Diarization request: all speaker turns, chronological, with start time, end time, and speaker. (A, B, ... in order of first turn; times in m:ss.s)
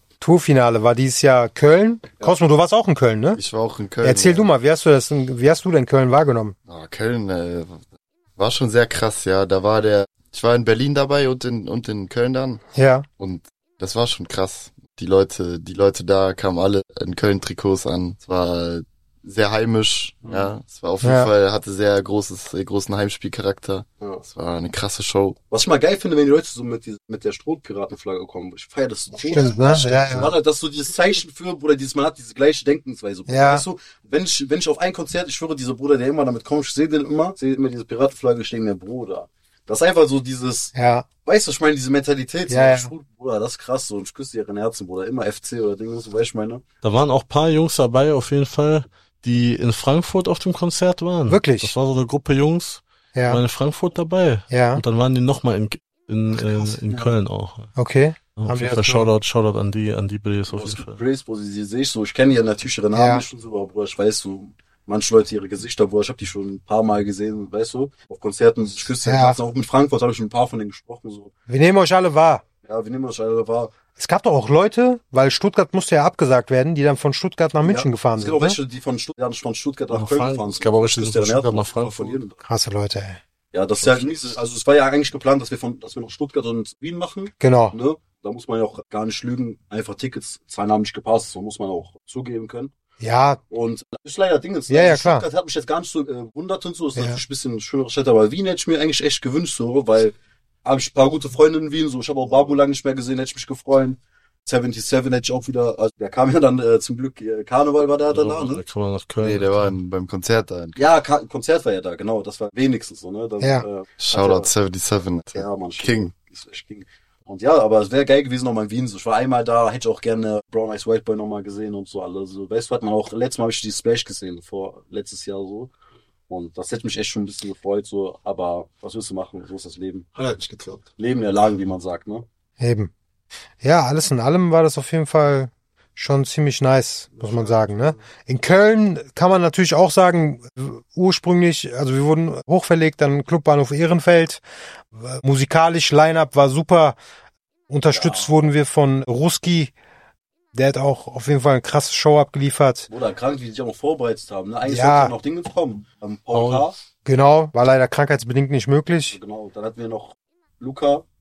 0:00.2-0:03.4 A
0:03.3-0:04.5 B
0:04.0-0:06.6 A
0:06.7-0:07.8 B
0:08.4-0:12.6 B
0:12.8-0:13.0 A
0:13.2-0:25.4 B
0:21.0-0:21.3 A
0:25.5-0:46.6 C
0:29.2-0:29.8 D
0:29.3-0:30.3 A
0:33.3-0:33.6 A
0:40.7-0:41.1 A
0:42.5-0:42.9 A
0:46.8-0:57.7 E
0:51.3-0:51.7 A
0:53.1-0:53.4 A
0:54.5-0:54.8 A
0:57.8-0:59.1 A
0:58.4-1:01.0 E
1:00.5-1:11.3 C
1:02.9-1:03.2 A
1:09.0-1:09.4 A
1:11.5-1:12.4 A
1:12.6-1:13.7 C
1:14.0-1:18.6 A
1:17.6-1:22.4 C
1:19.9-1:22.2 E
1:22.4-1:23.2 A
1:23.5-1:32.7 C
1:27.4-1:27.8 A
1:33.0-1:33.4 A
1:33.5-1:48.6 C
1:34.7-1:35.2 A
1:48.1-1:49.7 E
1:49.2-1:50.8 B
1:50.8-1:54.5 C
1:53.4-1:53.6 A
1:54.0-1:56.1 B
1:55.3-2:05.7 C
2:06.3-2:10.0 C
2:10.1-2:10.8 D
2:11.0-2:12.2 C
2:12.6-2:12.9 A
2:13.6-2:24.4 A
2:17.2-2:18.0 D
2:24.9-2:27.0 A
2:27.7-2:29.7 A
2:27.9-2:28.3 C
2:30.5-2:32.9 A
2:32.9-2:36.8 C
2:34.6-2:35.1 A
2:36.3-2:36.6 E
2:37.0-2:39.2 A
2:39.1-2:41.0 C